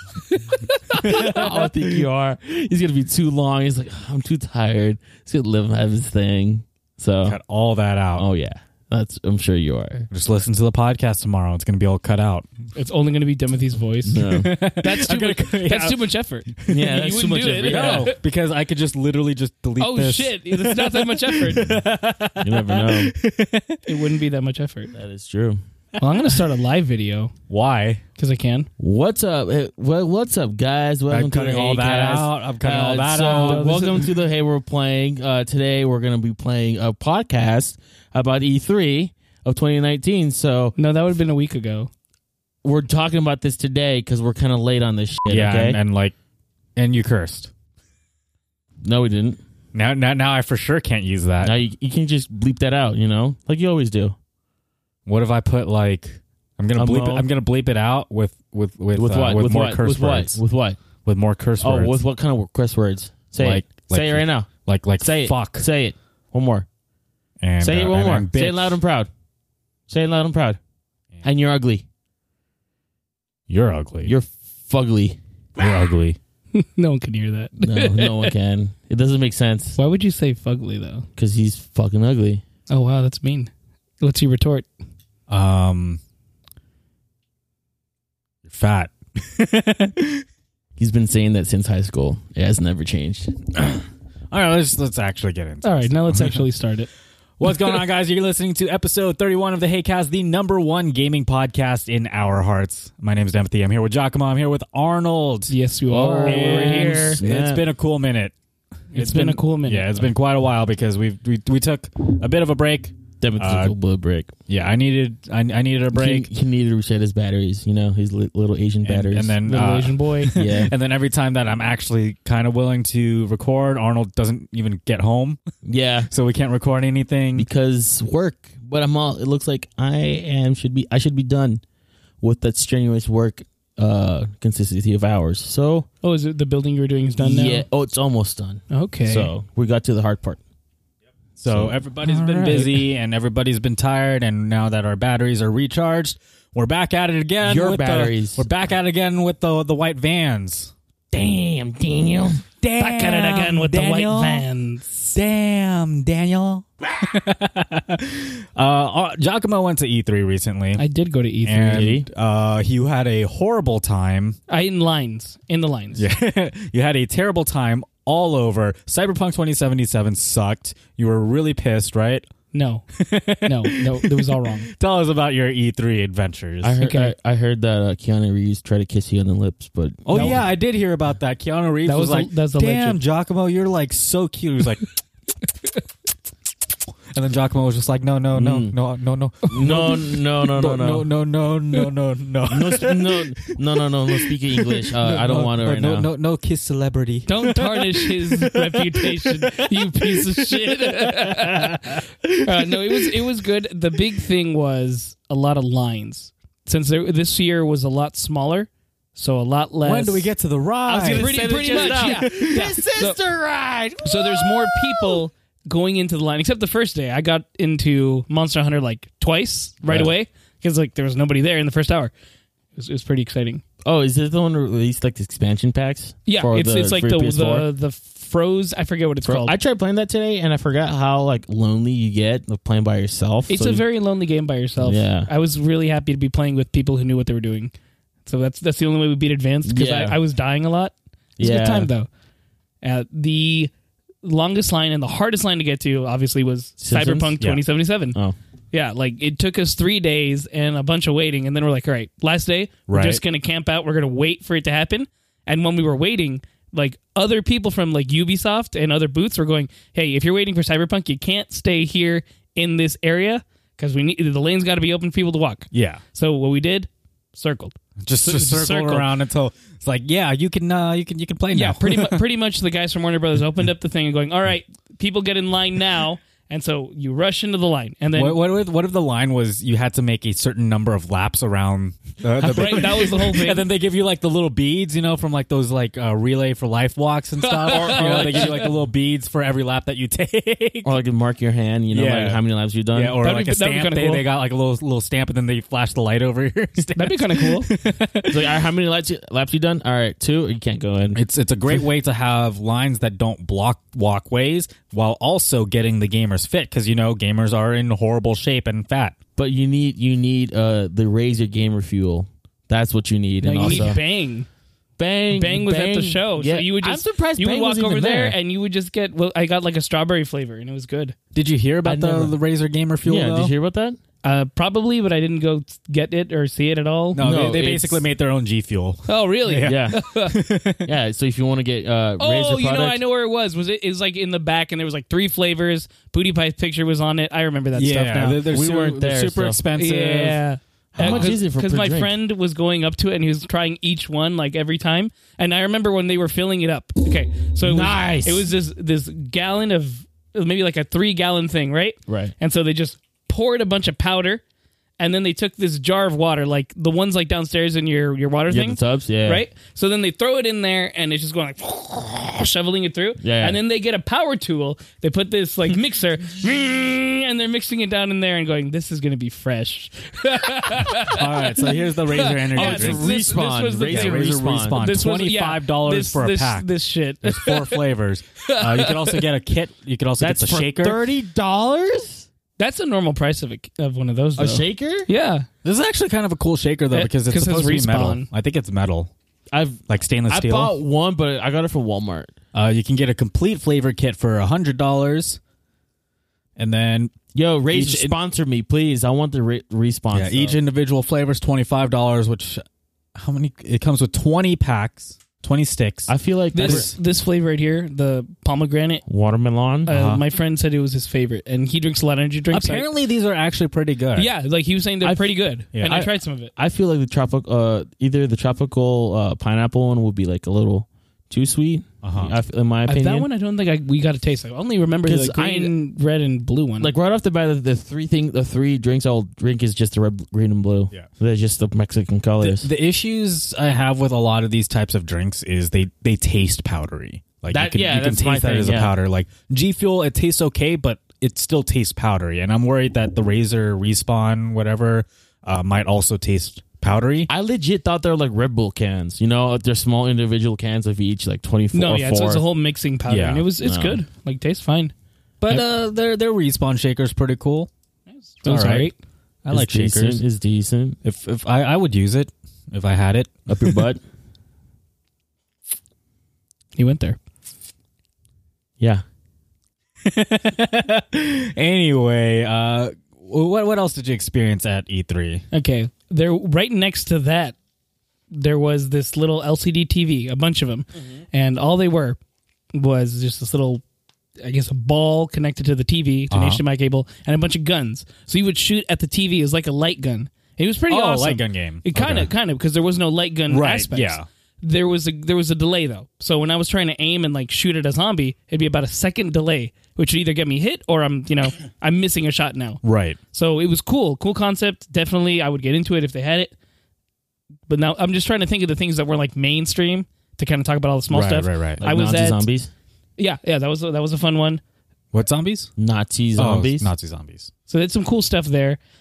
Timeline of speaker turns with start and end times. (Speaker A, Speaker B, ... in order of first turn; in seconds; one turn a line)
Speaker A: 0.3-1.3
Speaker B: 0.9-2.1
Speaker C: 1.0-7.4
Speaker B: 7.2-8.2
Speaker C: 8.2-10.1
Speaker B: 10.1-12.5
Speaker A: 12.7-18.2
Speaker C: 14.1-14.5
Speaker B: 14.2-16.9
Speaker C: 16.7-18.1
Speaker B: 17.6-23.8
Speaker A: 19.8-21.7
Speaker C: 22.4-23.1
Speaker A: 23.9-24.9
Speaker C: 24.9-25.6
Speaker A: 26.0-27.3
Speaker B: 26.1-26.4
Speaker B: 27.5-28.0
Speaker A: 28.2-28.7
Speaker C: 28.8-40.7
Speaker B: 31.1-33.8
Speaker A: 33.3-34.0
Speaker A: 40.8-41.9
Speaker C: 42.6-45.8
Speaker B: 45.2-46.1
Speaker B: 46.8-47.5
Speaker C: 48.8-49.4
Speaker B: 49.7-51.5
Speaker C: 51.4-54.1
Speaker B: 55.0-60.4
Speaker C: 56.8-57.3
Speaker C: 58.9-60.8
Speaker B: 61.0-61.9
Speaker C: 61.6-64.5
Speaker B: 63.4-65.7
Speaker C: 65.0-66.7
Speaker B: 67.4-68.8
Speaker C: 67.6-69.1
Speaker C: 69.9-70.6
Speaker C: 71.2-71.8
Speaker B: 73.5-74.1
Speaker C: 74.0-75.2
Speaker B: 75.6-76.2
Speaker A: 76.5-78.3
Speaker C: 77.6-79.8
Speaker A: 79.8-81.0
Speaker C: 81.2-82.4
Speaker A: 82.7-84.7
Speaker B: 85.3-86.0
Speaker B: 88.4-90.2
Speaker C: 90.8-93.5
Speaker B: 94.3-96.4
Speaker A: 95.6-96.9
Speaker B: 97.4-108.3
Speaker A: 105.5-107.2
Speaker C: 105.9-107.6
Speaker B: 108.9-113.7
Speaker A: 108.9-110.0
Speaker C: 113.2-114.3
Speaker B: 114.5-116.3
Speaker C: 115.9-119.3
Speaker B: 118.8-125.4
Speaker A: 119.4-120.3
Speaker C: 120.3-120.7
Speaker C: 125.6-126.1
Speaker B: 126.1-127.5
Speaker C: 127.3-131.6
Speaker C: 132.2-135.8
Speaker A: 136.0-137.6
Speaker C: 137.2-140.4
Speaker A: 138.7-139.3
Speaker C: 141.4-142.8
Speaker B: 141.4-150.7
Speaker C: 147.4-148.4
Speaker C: 151.1-152.4
Speaker B: 152.6-154.4
Speaker A: 152.8-155.1
Speaker B: 155.1-160.8
Speaker A: 160.8-161.9
Speaker B: 161.4-164.4
Speaker C: 161.7-162.1
Speaker A: 164.5-166.1
Speaker B: 165.9-172.3
Speaker A: 172.5-172.8
Speaker B: 172.9-176.8
Speaker A: 173.4-174.7
Speaker C: 176.6-180.3
Speaker A: 176.8-177.1
Speaker B: 180.1-184.9
Speaker A: 180.1-180.4
Speaker A: 181.8-183.0
Speaker B: 187.1-193.5
Speaker C: 188.3-188.8
Speaker C: 189.5-191.1
Speaker C: 192.5-196.1
Speaker B: 194.9-203.3
Speaker A: 197.2-210.3
Speaker B: 209.8-212.7
Speaker C: 210.9-215.2
Speaker A: 211.1-213.2
Speaker A: 214.0-222.1
Speaker C: 219.8-220.1
Speaker A: 222.8-223.6
Speaker C: 223.8-227.7
Speaker A: 226.3-229.5
Speaker C: 229.2-233.8
Speaker A: 233.5-237.7
Speaker C: 234.8-235.3
Speaker A: 238.2-242.1
Speaker C: 239.7-240.2
Speaker C: 241.4-241.9
Speaker A: 242.8-243.7
Speaker A: 244.2-248.2
Speaker C: 246.8-247.4
Speaker A: 248.7-269.1
Speaker B: 252.9-253.2
Speaker B: 265.7-266.0
Speaker B: 268.0-272.2
Speaker A: 271.5-278.4
Speaker B: 278.1-290.9
Speaker A: 282.4-283.6
Speaker A: 287.4-288.7
Speaker C: 287.6-288.7
Speaker C: 290.8-293.2
Speaker B: 291.9-292.4
Speaker B: 292.9-298.6
Speaker A: 293.2-294.2
Speaker A: 296.9-297.7
Speaker C: 298.3-301.2
Speaker B: 301.1-309.2
Speaker C: 309.4-314.0
Speaker A: 313.4-314.5
Speaker B: 313.6-313.9
Speaker C: 315.0-318.4
Speaker A: 315.3-321.1
Speaker B: 321.3-323.5
Speaker C: 321.8-322.3
Speaker C: 323.0-324.0
Speaker A: 324.2-327.2
Speaker B: 327.1-330.9
Speaker C: 327.2-328.0
Speaker A: 329.1-330.4
Speaker C: 329.6-330.0
Speaker C: 330.8-333.0
Speaker A: 332.2-338.4
Speaker B: 337.7-340.4
Speaker C: 338.5-339.6
Speaker A: 339.7-354.4
Speaker C: 340.9-342.1
Speaker B: 341.0-341.4
Speaker C: 347.6-348.5
Speaker C: 352.1-352.3
Speaker A: 355.0-377.8
Speaker C: 358.5-359.4
Speaker C: 363.2-363.6
Speaker B: 370.8-373.1
Speaker C: 372.5-374.8
Speaker B: 373.9-376.7
Speaker B: 377.2-381.1
Speaker A: 378.4-379.2
Speaker C: 380.2-382.3
Speaker A: 382.6-385.5
Speaker C: 384.4-385.1
Speaker B: 385.6-389.1
Speaker A: 386.9-388.3
Speaker C: 389.5-392.3
Speaker B: 389.9-390.8
Speaker B: 392.5-395.4
Speaker B: 396.6-397.2
Speaker C: 397.3-400.6
Speaker B: 397.7-398.1
Speaker B: 400.1-402.6
Speaker B: 403.1-407.0
Speaker C: 406.1-406.9
Speaker A: 406.5-409.0
Speaker C: 409.1-409.9
Speaker B: 409.9-410.2
Speaker A: 409.9-412.9
Speaker B: 412.5-414.3
Speaker A: 414.1-416.5
Speaker C: 415.0-423.3
Speaker B: 422.0-422.4
Speaker A: 422.9-426.9
Speaker C: 425.1-425.7
Speaker C: 426.8-432.7
Speaker B: 432.4-447.3
Speaker C: 437.5-438.9
Speaker C: 447.3-452.4
Speaker A: 451.7-454.9
Speaker B: 453.1-453.5
Speaker C: 453.6-454.0
Speaker B: 455.4-457.7
Speaker A: 458.2-458.9
Speaker B: 458.4-458.9
Speaker B: 459.4-460.2
Speaker C: 459.5-461.0
Speaker B: 461.0-463.8
Speaker C: 463.5-464.0
Speaker A: 466.8-467.2
Speaker B: 470.0-475.4
Speaker A: 475.5-477.5
Speaker A: 478.3-482.2
Speaker A: 482.7-483.8
Speaker A: 484.4-502.8
Speaker B: 486.3-486.6
Speaker B: 490.9-492.3
Speaker B: 493.5-494.3
Speaker B: 502.8-503.2
Speaker A: 503.3-506.5
Speaker A: 507.7-512.4
Speaker B: 511.1-511.8
Speaker C: 511.8-512.7
Speaker A: 513.2-514.6
Speaker B: 515.1-515.7
Speaker C: 515.8-516.9
Speaker B: 516.4-517.5
Speaker A: 517.7-518.8